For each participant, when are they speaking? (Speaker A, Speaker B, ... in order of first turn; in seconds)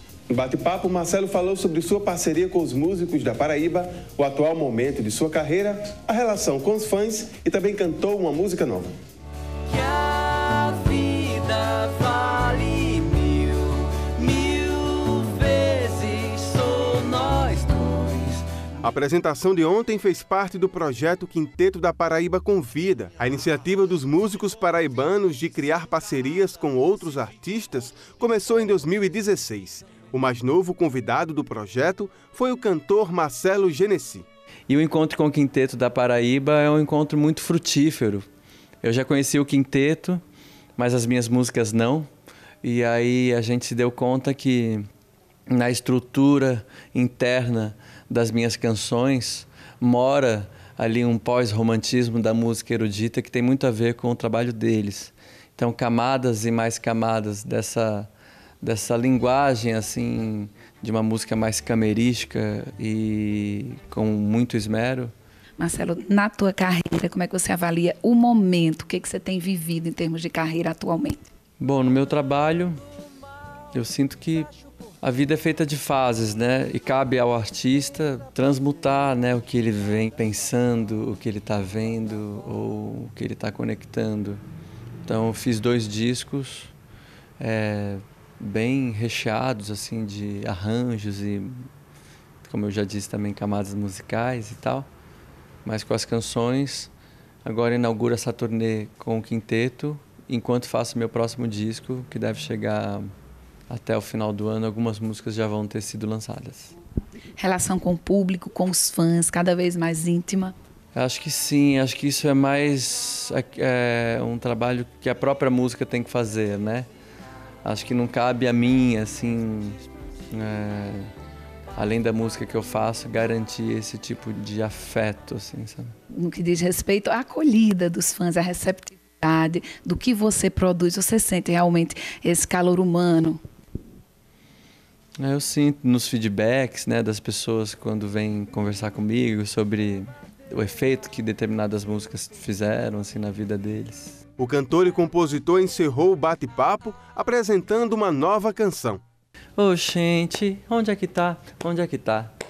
Speaker A: 0.3-8.9, 18.8-34.3, 144.4-149.0
Speaker B: 9.7-18.5, 34.7-38.3, 38.8-40.2, 40.8-42.1, 42.6-44.9, 45.5-58.1, 58.6-65.1, 71.6-72.8, 73.7-84.4, 85.1-86.7, 87.4-91.7, 92.4-94.9, 95.7-96.9, 97.5-103.1, 103.7-106.7, 110.9-116.9, 117.6-119.8, 120.3-121.1, 121.8-125.9, 135.2-144.2, 149.6-152.3
Speaker C: 65.6-71.2, 107.4-110.5, 126.1-133.4